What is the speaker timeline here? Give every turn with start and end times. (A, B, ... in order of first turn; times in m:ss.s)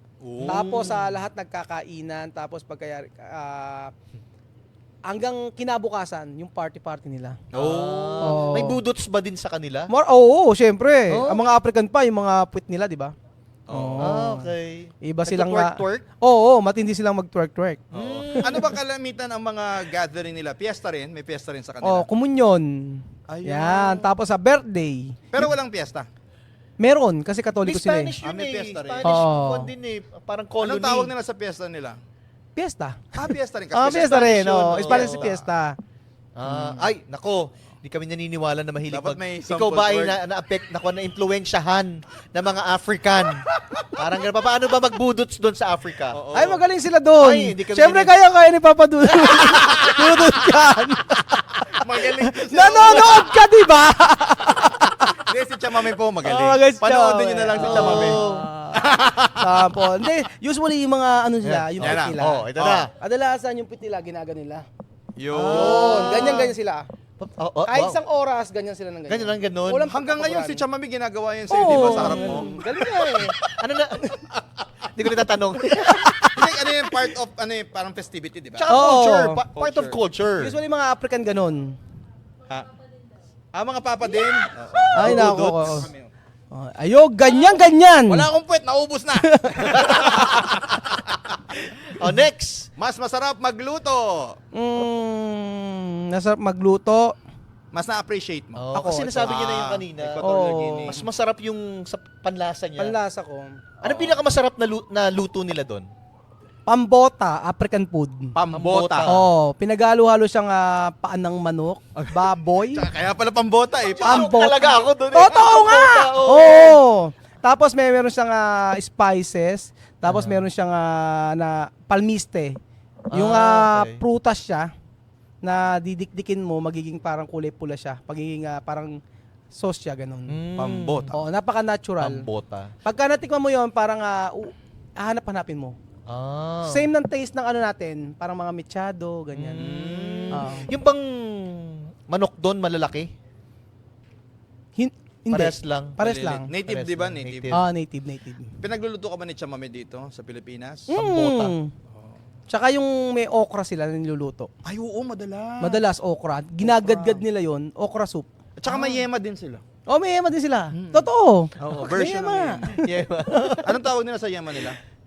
0:00.2-0:00.9 A
0:00.4-0:01.2 B
0:00.5-0:03.9 C
0:05.1-0:07.4 C
0:07.5-0:08.6 A
0:07.5-0:09.9 B
0:08.2-0:08.8 C
0:09.9-0:13.1 C
0:11.1-0:11.4 B
0:13.7-0:14.2 A
0:13.7-0:14.5 C
0:14.0-0:16.0 B
0:15.0-0:17.8 C
0:17.9-0:18.8 B
0:17.9-0:22.1 A
0:21.8-0:25.2 C
0:23.3-0:24.1 A
0:25.3-0:26.1 A
0:26.8-0:28.1 C
0:27.6-0:31.1 B
0:28.2-0:29.1 A
0:29.0-0:29.7 C
0:30.6-0:32.0 A
0:32.6-0:33.1 C
0:33.2-0:35.4 A
0:33.7-0:35.8 C
0:34.8-0:35.3 B
0:36.4-0:46.2 B
0:36.4-0:36.9 A
0:38.9-0:40.2 A
0:46.1-0:46.6 A
0:46.3-0:51.8 C
0:47.2-0:48.1 B
0:49.3-0:50.0 A
0:51.8-0:53.5 A
0:52.3-0:55.2 C
0:55.1-0:58.2 A
0:56.2-0:58.8 C
0:57.5-0:58.5 B
0:58.8-0:59.6 A
0:59.4-1:02.5 C
1:01.4-1:02.9 B
1:01.8-1:02.9 A
1:03.0-1:04.6 C
1:05.2-1:06.5 A
1:05.3-1:06.5 B
1:05.4-1:06.9 C
1:07.2-1:08.0 B
1:07.7-1:10.6 C
1:09.1-1:09.9 B
1:09.9-1:13.6 A
1:11.5-1:13.4 C
1:11.7-1:12.5 B
1:13.4-1:14.1 B
1:14.8-1:16.6 B
1:16.2-1:18.8 A
1:18.5-1:20.6 B
1:18.7-1:19.4 C
1:19.5-1:20.0 A
1:20.4-1:21.8 C
1:23.5-1:26.1 A
1:24.7-1:25.8 B
1:24.9-1:25.9 C
1:26.5-1:28.3 C
1:28.1-1:31.4 A
1:29.2-1:29.9 C
1:29.9-1:30.5 B
1:31.9-1:32.7 B
1:32.8-1:34.4 A
1:34.5-1:37.1 C
1:37.7-1:38.6 A
1:38.5-1:40.2 B
1:38.7-1:39.4 C
1:39.2-1:41.0 A
1:40.2-1:41.0 C
1:40.9-1:43.0 B
1:42.8-1:44.0 C
1:43.8-1:45.9 B
1:46.7-1:48.3 C
1:48.3-1:49.2 A
1:48.5-1:49.2 B
1:49.1-1:52.9 C
1:52.0-1:54.4 A
1:53.8-1:56.8 B
1:54.0-2:02.6 C
1:56.3-1:56.7 A
2:00.0-2:00.4 B
2:03.1-2:04.0 B
2:03.1-2:04.7 C
2:05.4-2:09.0 C
2:09.5-2:10.4 C
2:10.3-2:11.1 B
2:10.6-2:11.2 A
2:11.1-2:12.2 C
2:12.0-2:12.7 B
2:12.8-2:15.8 C
2:16.1-2:16.9 B
2:16.7-2:19.7 C
2:19.3-2:23.1 B
2:19.6-2:20.6 A
2:20.3-2:20.7 C
2:24.8-2:26.5 C
2:25.3-2:27.6 B
2:26.0-2:27.5 A
2:27.5-2:28.5 C
2:28.6-2:30.9 A
2:30.9-2:31.7 C
2:30.9-2:31.5 B
2:32.5-2:34.5 C
2:34.6-2:35.8 A
2:35.6-2:38.3 C
2:36.6-2:37.2 A
2:38.6-2:39.6 A
2:38.7-2:39.0 B
2:39.9-2:43.5 C
2:40.7-2:42.8 A
2:42.7-2:43.8 B
2:43.6-2:44.8 A